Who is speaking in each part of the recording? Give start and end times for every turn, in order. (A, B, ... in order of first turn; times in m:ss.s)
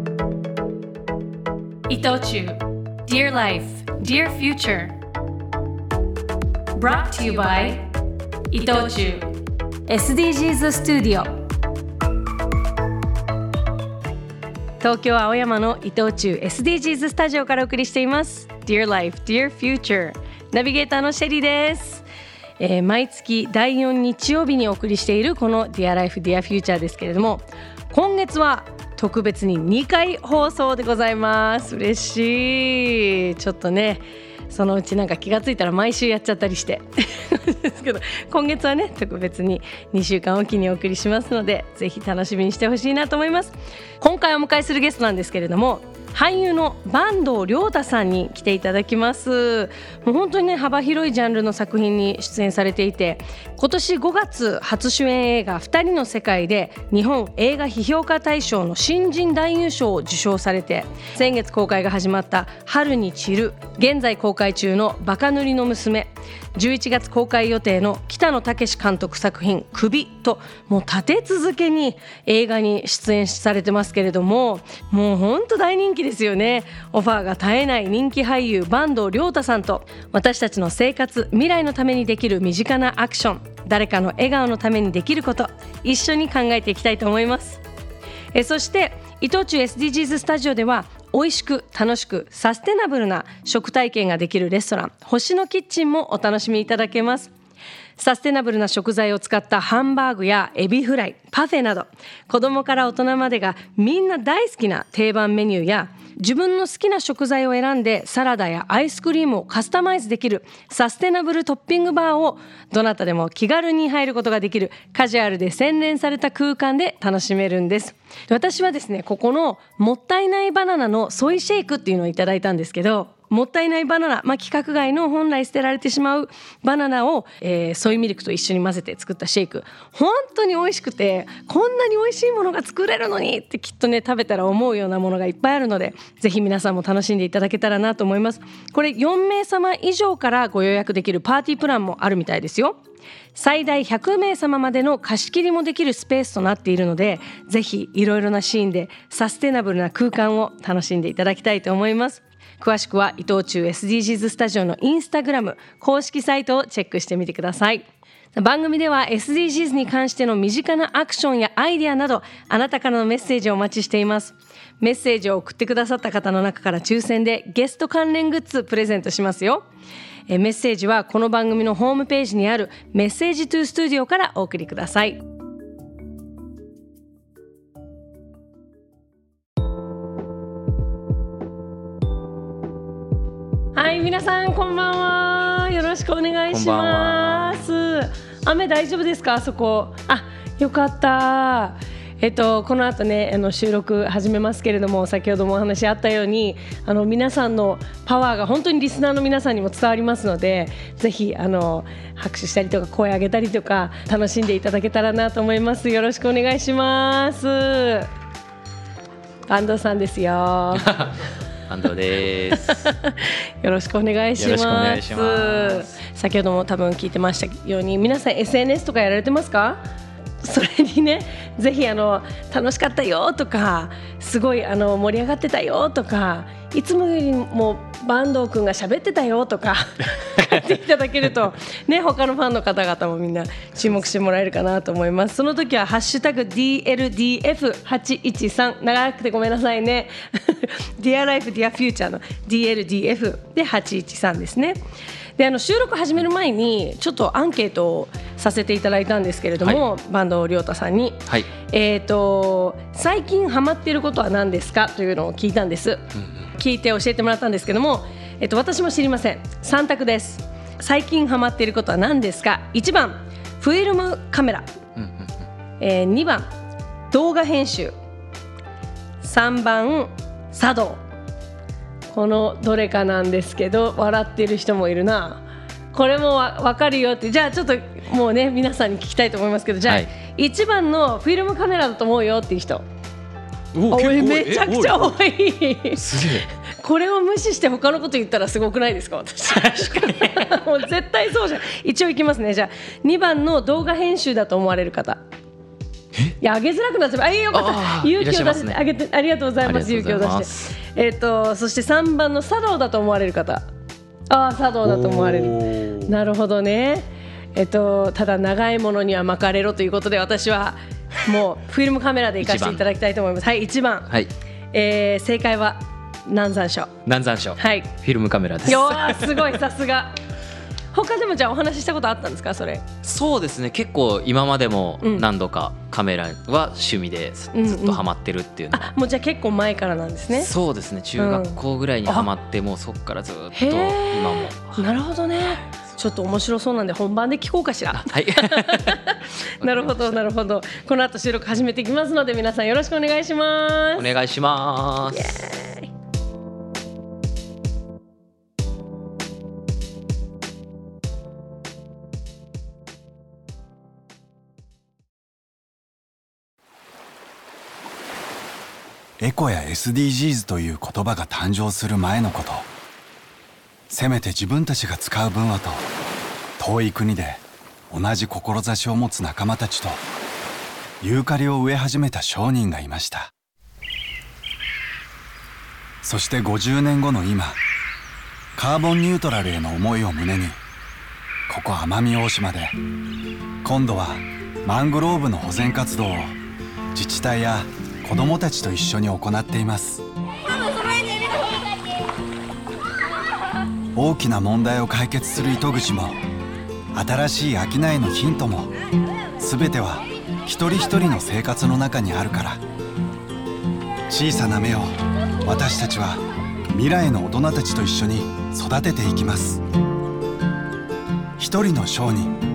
0:01.9-0:05.0 A
0:06.7-0:07.9 A
0:08.5-0:09.3 A
0:09.9-0:11.3 A
0:14.8-0:22.0 A
0:22.6-1:27.6 A
1:28.3-1:37.3 A
1:38.0-2:22.8 A
2:23.3-2:49.6 A
2:50.3-2:55.2 A
3:03.7-3:28.1 A
3:06.5-3:07.5 B
3:29.5-3:30.8 A
3:31.7-3:32.8 B
3:32.6-3:39.8 A
3:34.4-3:35.9 B
3:40.4-4:04.8 A
4:05.4-4:24.7 A
4:25.8-4:26.5 A
4:27.1-4:27.9 A
4:29.2-4:31.0 A
4:32.1-4:42.8 A
4:43.7-4:45.1 B
4:43.9-4:55.2 A
4:46.0-4:46.4 B
4:49.8-4:50.1 B
4:56.4-5:03.6 A
4:57.5-4:58.8 B
4:59.6-5:00.6 B
5:04.3-5:14.1 A
5:12.4-5:12.8 B
5:14.7-5:16.9 A
5:17.0-5:19.4 B
5:17.6-5:17.9 A
5:18.6-5:20.1 A
5:20.9-5:22.8 A
5:23.0-5:28.9 B
5:25.0-5:25.2 A
5:27.5-5:28.0 A
5:28.7-5:30.5 A
5:30.3-5:34.8 B
5:31.2-5:32.3 A
5:33.5-5:44.1 A
5:37.9-5:39.0 B
5:39.6-5:40.1 B
5:44.0-5:45.3 B
5:45.1-5:45.9 A
5:59.2-6:02.7 C
6:03.9-6:05.8 C
6:06.6-6:10.0 C
6:11.0-6:13.3 C
6:16.0-6:17.6 C
6:18.6-6:20.6 C
6:21.5-6:22.8 C
6:23.6-6:26.4 C
6:26.9-6:30.0 C
6:33.9-6:36.2 C
6:36.9-6:38.7 C
6:39.4-6:42.6 C
6:44.1-6:49.6 C
6:51.4-6:52.4 C